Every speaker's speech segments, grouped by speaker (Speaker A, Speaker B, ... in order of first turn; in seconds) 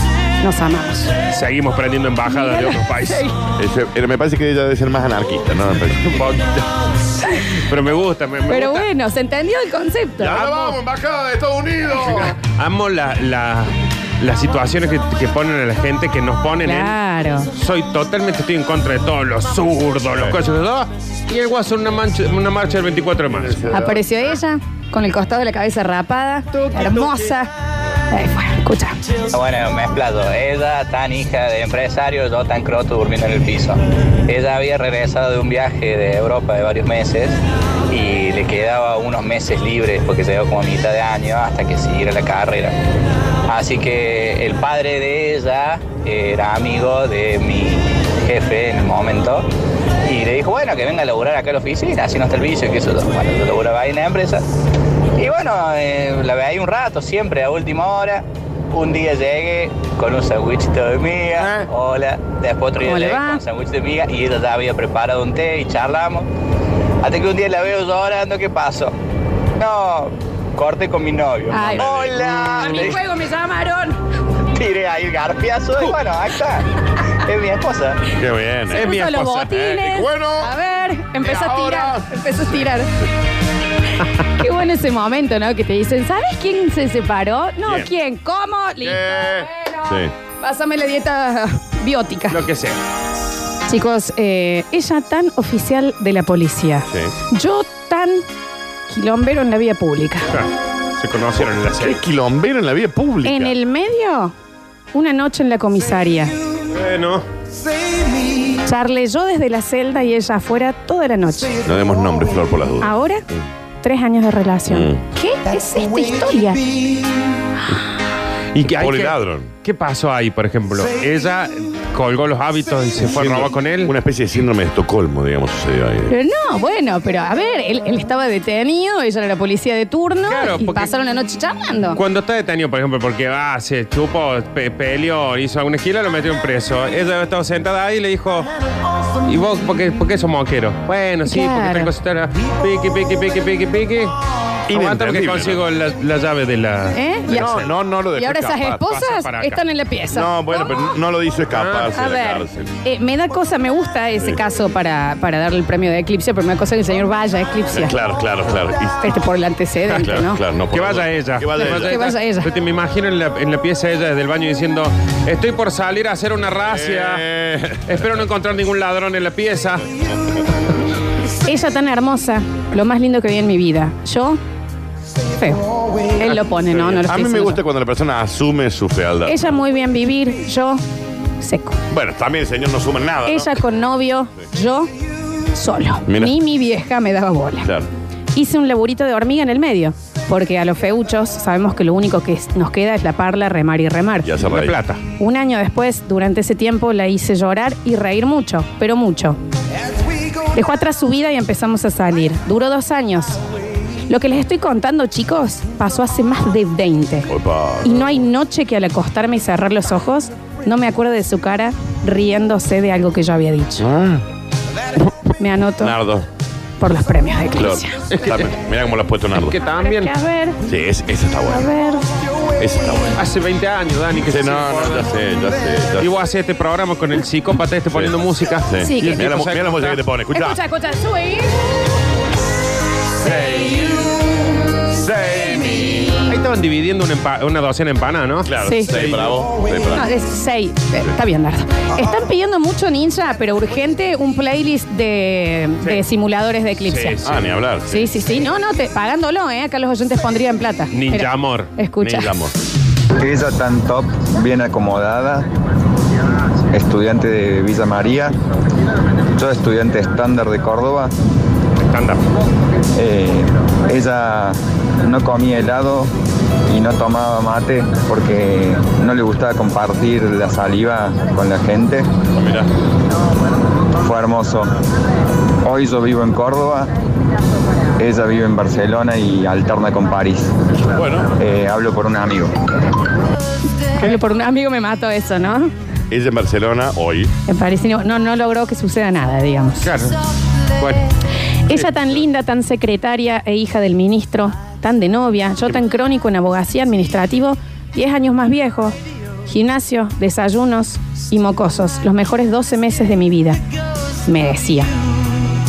Speaker A: 0.4-1.1, 2.3-3.3, 7.3-7.6, 8.5-10.5, 16.6-17.5, 23.7-27.5, 28.1-29.0, 62.8-63.4, 71.5-71.9, 72.4-74.0, 78.7-82.9, 84.4-89.9, 90.4-92.4, 93.7-98.2, 98.9-100.3, 103.2-104.3, 104.9-106.3, 108.7-111.6, 112.8-113.2, 113.8-116.6, 126.1-132.0, 141.3-141.9, 146.9-150.9, 151.9-157.9, 159.0-160.4, 161.6-162.5, 171.4-174.4, 175.4-175.6, 176.2-177.6, 179.3-180.8, 181.4-181.8, 183.3-184.9, 185.5-187.7, 188.3-194.3, 195.2-199.4, 200.5-203.4, 204.1-207.3, 207.8-213.9, 215.4-216.0, 216.8-218.0, 219.6-220.6, 221.5-222.1, 228.8-229.2, 230.3-231.5, 238.6-238.9, 239.9-247.2, 247.9-252.3, 283.9-285.7, 287.5-289.9, 291.7-299.0, 299.5-303.6, 304.3-304.9
Speaker B: 1.3-3.2, 6.1-6.6, 7.5-8.9, 10.3-10.8, 12.0-16.9, 17.5-23.6, 78.7-79.7, 92.3-92.8, 100.3-102.0, 106.8-107.2, 118.5-123.9, 130.3-130.9, 131.9-138.5, 139.2-144.1, 144.7-147.7, 148.9-149.6, 151.5-151.9, 160.7-167.2, 167.9-169.8, 194.4-195.0, 218.1-218.5, 219.4-220.1, 223.2-225.1, 226.0-230.0, 233.3-233.9, 236.2-239.3, 246.9-247.4, 250.9-251.7, 261.9-262.2, 289.8-290.2, 290.8-291.1
Speaker C: 3.6-6.2, 10.2-12.3, 23.4-24.0, 61.4-61.7, 71.8-72.2, 78.1-79.0, 79.6-80.5, 81.2-82.1, 88.8-90.1, 101.4-103.5, 111.6-112.9, 114.7-115.0, 118.7-119.5, 123.0-126.1, 144.7-145.6, 147.3-148.8, 150.1-152.7, 157.7-159.0, 160.0-162.0, 166.7-167.9, 177.0-179.4, 181.9-183.6, 186.1-186.3, 187.6-187.9, 194.2-194.8, 207.3-208.0, 213.8-214.2, 215.8-216.3, 217.6-219.6, 220.7-221.7, 222.6-223.2, 224.3-226.1, 228.7-230.6, 234.9-236.1, 238.5-240.1, 247.2-248.1, 252.0-252.5, 272.3-272.7, 280.9-281.3, 286.1-287.3
Speaker D: 29.3-37.4, 37.9-42.8, 43.5-49.5, 50.0-54.5, 55.2-66.3, 67.0-69.0, 69.6-73.0, 74.5-76.7, 77.2-78.1
Speaker E: 253.2-255.5, 256.7-258.4, 259.3-261.1, 262.9-266.1, 266.7-272.1, 274.0-274.7, 275.6-276.9, 278.0-280.5, 281.4-282.6